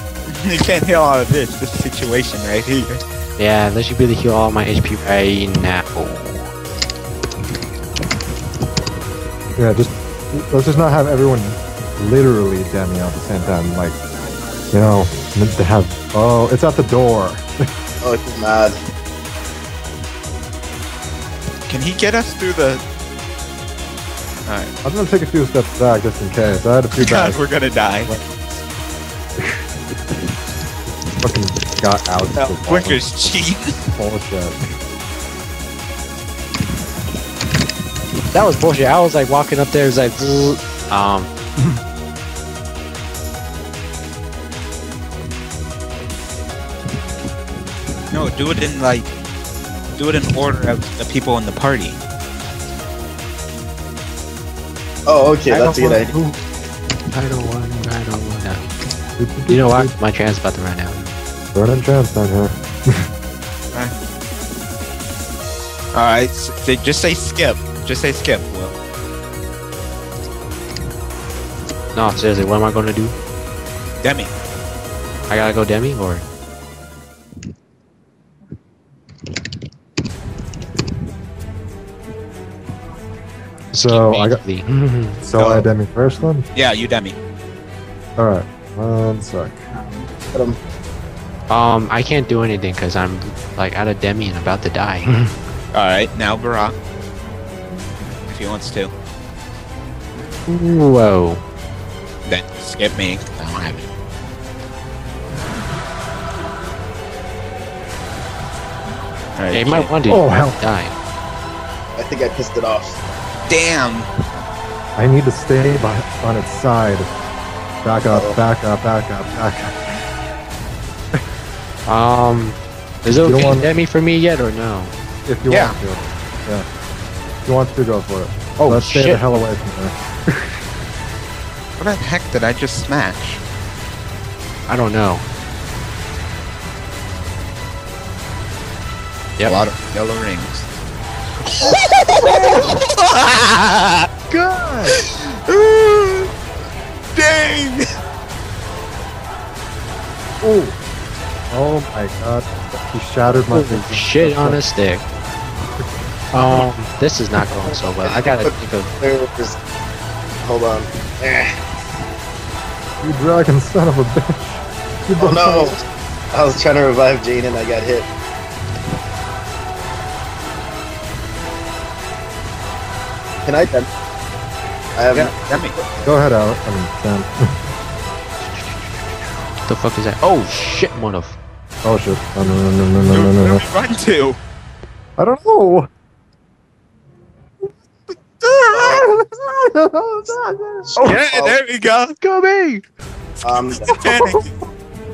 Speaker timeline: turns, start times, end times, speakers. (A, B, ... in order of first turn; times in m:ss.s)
0:00.3-0:03.0 A
0:03.4-0:06.4 B
0:09.6-0:14.0 C
0:14.7-0:17.5 C
0:18.0-0:18.8 D
0:21.7-0:22.8 A
0:24.5-0:24.7 A
0:24.8-0:27.4 C
0:26.9-0:28.1 A
0:31.2-0:33.1 C
0:32.4-0:33.7 A
0:33.9-0:34.6 C
0:38.3-0:41.8 B
0:48.1-0:49.1 A
0:50.0-0:52.0 A
0:55.1-0:56.1 D
0:55.5-0:56.4 B
0:57.1-0:58.6 B
0:59.2-0:59.9 C
0:59.5-1:01.1 B
1:01.6-1:03.0 C
1:05.9-1:08.7 A
1:11.9-1:13.2 B
1:14.0-1:14.3 A
1:15.3-1:16.2 B
1:23.7-1:25.2 B
1:23.7-1:24.4 C
1:25.2-1:26.5 C
1:25.4-1:25.7 A
1:26.5-1:27.2 A
1:28.2-1:29.7 C
1:30.3-1:30.6 D
1:31.5-1:35.3 B
1:35.7-1:36.8 A
1:38.3-1:38.9 A
1:40.5-1:41.4 B
1:42.3-1:43.9 A
1:49.4-1:49.9 A
1:49.5-1:51.0 B
1:50.1-1:50.6 C
1:52.0-1:53.0 D
1:53.5-1:54.1 A
1:55.0-1:57.1 C
1:57.8-1:59.7 C
1:58.1-1:58.4 D
2:01.9-2:04.9 B
2:03.2-2:03.7 C
2:05.3-2:06.7 C
2:05.5-2:05.8 A
2:07.4-2:10.6 C
2:08.6-2:09.3 B
2:11.8-2:13.4 A
2:14.7-2:15.2 B
2:19.4-2:20.7 A
2:21.5-2:24.1 A
2:24.3-2:25.0 C
2:25.4-2:26.3 A
2:27.2-2:27.8 A
2:30.4-2:30.8 C
2:31.5-2:34.6 C
2:33.3-2:35.0 B
2:36.3-2:38.9 B
2:36.4-2:36.7 C
2:37.7-2:38.5 D
2:39.0-2:39.6 D
2:40.4-2:41.5 D
2:43.0-2:45.8 C
2:45.2-2:48.1 D
2:53.4-2:53.9 D
2:55.0-2:56.2 D
2:55.2-2:55.8 A
2:56.0-2:57.4 C
2:58.4-2:59.1 B
2:59.6-3:01.4 B
3:01.8-3:03.6 C
3:03.1-3:04.4 A
3:05.2-3:05.9 C
3:08.4-3:08.9 A
3:08.7-3:09.1 D
3:08.8-3:10.9 C
3:10.8-3:11.6 D
3:11.0-3:12.2 A
3:12.2-3:12.8 B
3:13.4-3:13.9 D
3:13.9-3:14.5 A
3:13.9-3:14.4 C